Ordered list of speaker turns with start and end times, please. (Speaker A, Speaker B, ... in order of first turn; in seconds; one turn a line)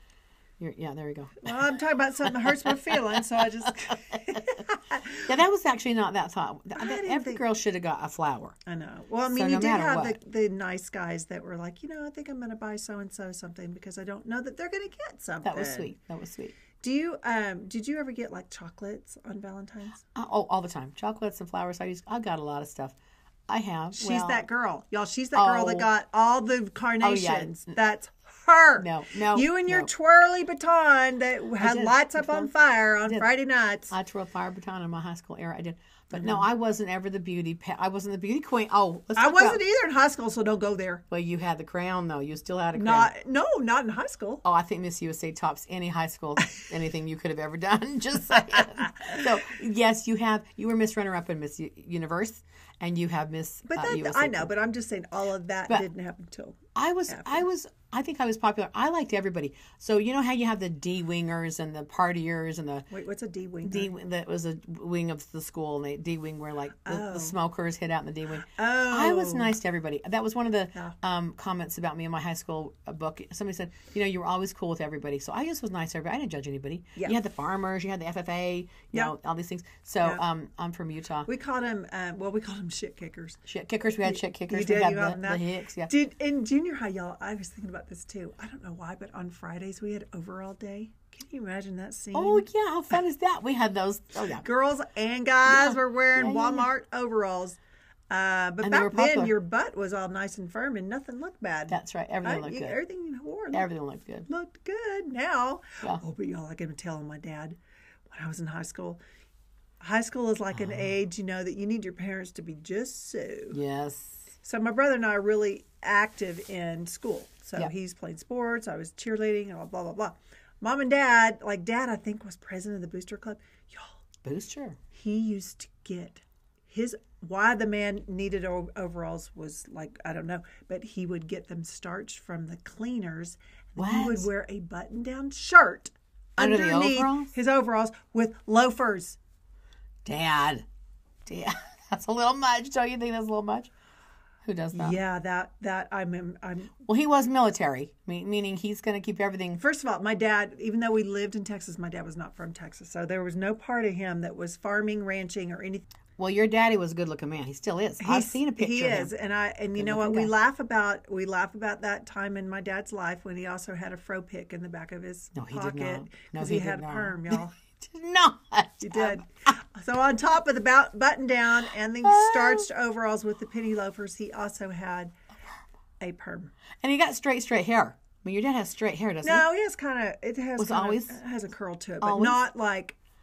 Speaker A: 0.6-1.6
Speaker B: 1.4-5.2
Speaker A: 2.2-8.6
Speaker B: 6.8-7.4
Speaker B: 8.7-15.9
Speaker A: 9.3-10.2
Speaker A: 15.4-16.6
Speaker B: 16.8-20.0
Speaker A: 20.1-22.9
Speaker A: 23.5-24.4
Speaker B: 23.9-33.9
Speaker A: 25.3-25.9
Speaker A: 27.0-27.6
Speaker A: 28.8-29.9
Speaker A: 31.6-32.5
Speaker A: 33.9-39.6
Speaker B: 36.1-36.5
Speaker B: 39.1-41.0
Speaker A: 41.1-43.1
Speaker B: 42.8-44.4
Speaker A: 44.4-54.5
Speaker B: 53.7-57.5
Speaker A: 56.7-62.9
Speaker B: 62.9-63.9
Speaker A: 63.6-81.3
Speaker B: 66.8-67.3
Speaker B: 68.5-69.5
Speaker B: 81.2-83.4
Speaker A: 83.5-85.9
Speaker B: 84.0-92.4
Speaker A: 92.1-94.4
Speaker B: 94.3-97.6
Speaker A: 95.5-96.7
Speaker B: 98.1-103.7
Speaker A: 98.6-99.3
Speaker A: 101.7-102.8
Speaker A: 103.5-104.3
Speaker B: 104.3-107.6
Speaker B: 108.1-109.0
Speaker B: 109.8-113.6
Speaker A: 110.5-110.9
Speaker A: 113.5-114.2
Speaker B: 114.4-123.9
Speaker A: 124.2-124.8
Speaker B: 124.9-139.2
Speaker A: 133.8-134.3
Speaker A: 136.4-137.3
Speaker A: 140.0-140.6
Speaker A: 141.2-143.7
Speaker A: 144.4-145.0
Speaker B: 144.7-146.7
Speaker A: 146.8-149.6
Speaker B: 149.6-155.8
Speaker A: 156.2-159.1
Speaker B: 158.0-167.5
Speaker A: 159.8-160.3
Speaker A: 165.3-169.2
Speaker B: 168.8-175.1
Speaker A: 172.0-172.7
Speaker B: 176.0-176.5
Speaker A: 176.8-179.4
Speaker B: 179.2-183.0
Speaker A: 180.6-181.2
Speaker A: 182.0-182.4